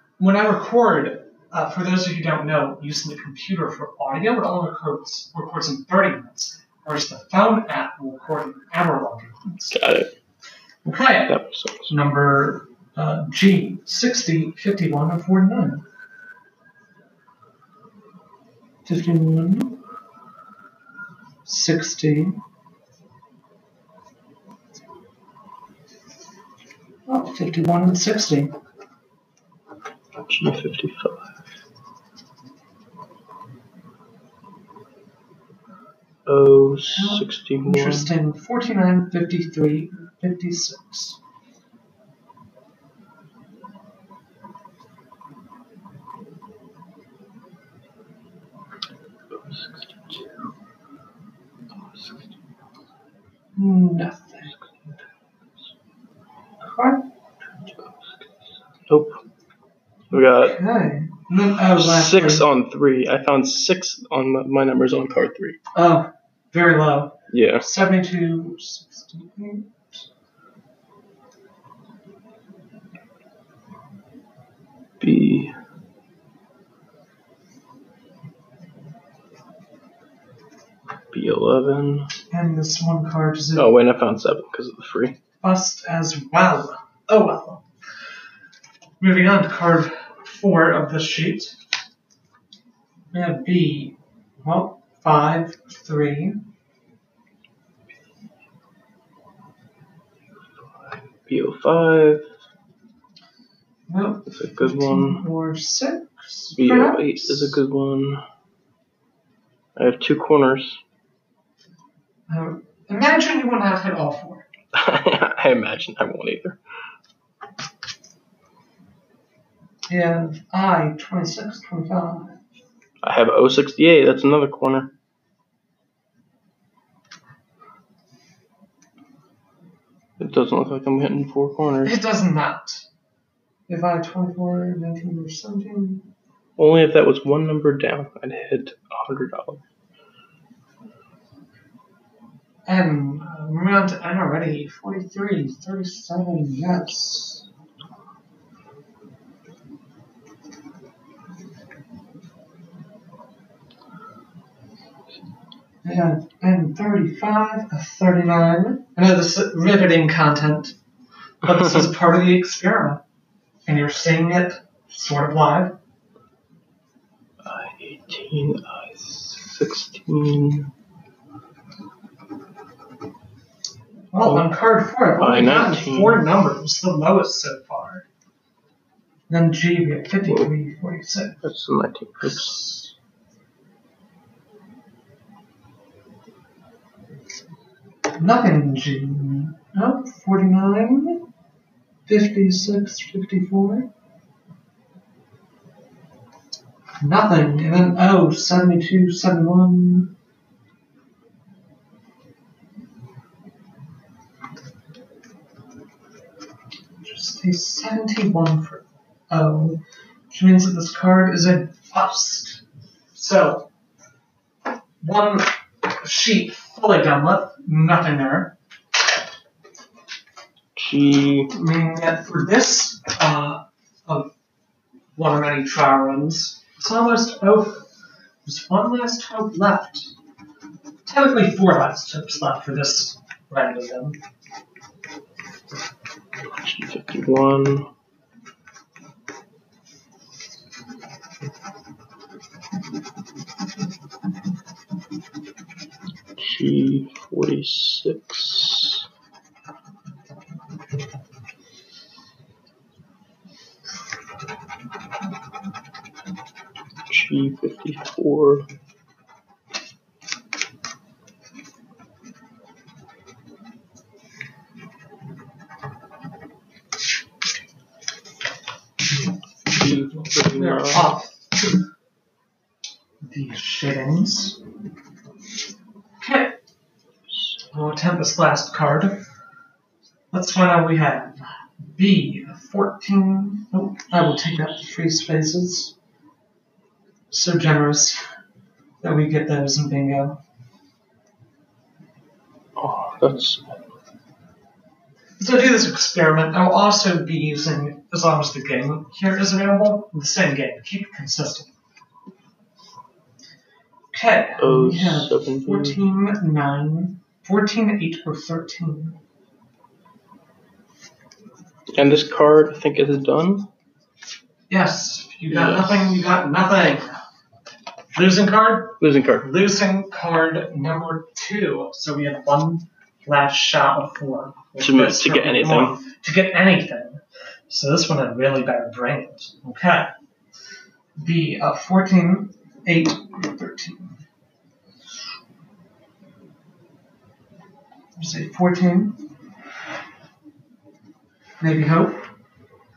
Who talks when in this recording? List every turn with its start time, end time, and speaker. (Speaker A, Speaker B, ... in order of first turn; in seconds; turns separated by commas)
Speaker A: 0.2-9.8, Speaker B: 9.7-10.1, Speaker A: 10.8-15.8, Speaker B: 11.3-11.9, Speaker A: 18.9-19.8, Speaker A: 21.4-22.4, Speaker A: 27.1-28.5, Speaker B: 30.2-31.3, Speaker B: 36.2-38.1, Speaker A: 36.9-41.2, Speaker B: 49.3-50.4, Speaker B: 51.9-52.2, Speaker A: 53.5-54.5, Speaker A: 56.6-57.0, Speaker B: 58.9-59.2, Speaker B: 60.1-60.6, Speaker A: 60.2-62.4, Speaker B: 61.7-65.6, Speaker A: 65.7-70.0, Speaker B: 67.3-67.7, Speaker B: 75.0-75.5, Speaker B: 81.1-82.1, Speaker A: 82.3-83.7, Speaker B: 83.5-85.2, Speaker A: 85.4-87.6, Speaker A: 89.0-91.5, Speaker A: 93.1-96.4, Speaker B: 100.7-102.2, Speaker A: 103.9-107.6, Speaker B: 104.3-105.2, Speaker B: 106.5-108.2, Speaker B: 109.8-110.8, Speaker A: 112.3-114.5, Speaker B: 114.7-116.6, Speaker A: 119.9-122.4, Speaker B: 123.0-124.9, Speaker B: 130.2-132.0, Speaker A: 131.8-132.8, Speaker A: 133.7-136.1, Speaker B: 136.6-139.6, Speaker A: 142.7-147.5, Speaker A: 155.8-160.8, Speaker A: 161.4-163.0, Speaker B: 161.6-161.8, Speaker A: 163.7-165.7, Speaker B: 167.4-170.7, Speaker A: 174.1-178.0, Speaker B: 174.2-174.5, Speaker B: 175.2-176.2, Speaker A: 179.3-181.4, Speaker B: 181.4-182.6, Speaker A: 182.2-182.9, Speaker A: 188.2-191.2, Speaker A: 192.1-193.9, Speaker A: 197.0-200.1, Speaker A: 207.0-209.8, Speaker A: 210.3-212.6, Speaker A: 213.1-213.7, Speaker A: 215.0-218.5, Speaker B: 220.8-221.5, Speaker A: 221.5-224.3, Speaker A: 225.2-227.8, Speaker A: 228.4-230.1, Speaker A: 231.1-234.2, Speaker B: 236.5-237.9, Speaker B: 246.4-249.1, Speaker B: 257.1-258.6, Speaker B: 269.7-271.1, Speaker A: 270.4-271.4, Speaker A: 273.2-274.6, Speaker A: 276.2-276.5, Speaker A: 277.7-279.2, Speaker A: 280.3-285.9, Speaker A: 287.3-288.2, Speaker A: 289.0-290.4, Speaker B: 292.8-293.8, Speaker A: 295.4-301.7, Speaker A: 304.1-309.2, Speaker B: 304.6-306.0, Speaker B: 311.9-313.7, Speaker A: 314.7-317.2, Speaker B: 315.5-316.3, Speaker A: 318.1-330.1, Speaker B: 319.0-319.5, Speaker B: 324.8-325.9, Speaker A: 331.2-334.2, Speaker A: 338.1-339.2, Speaker A: 341.6-342.2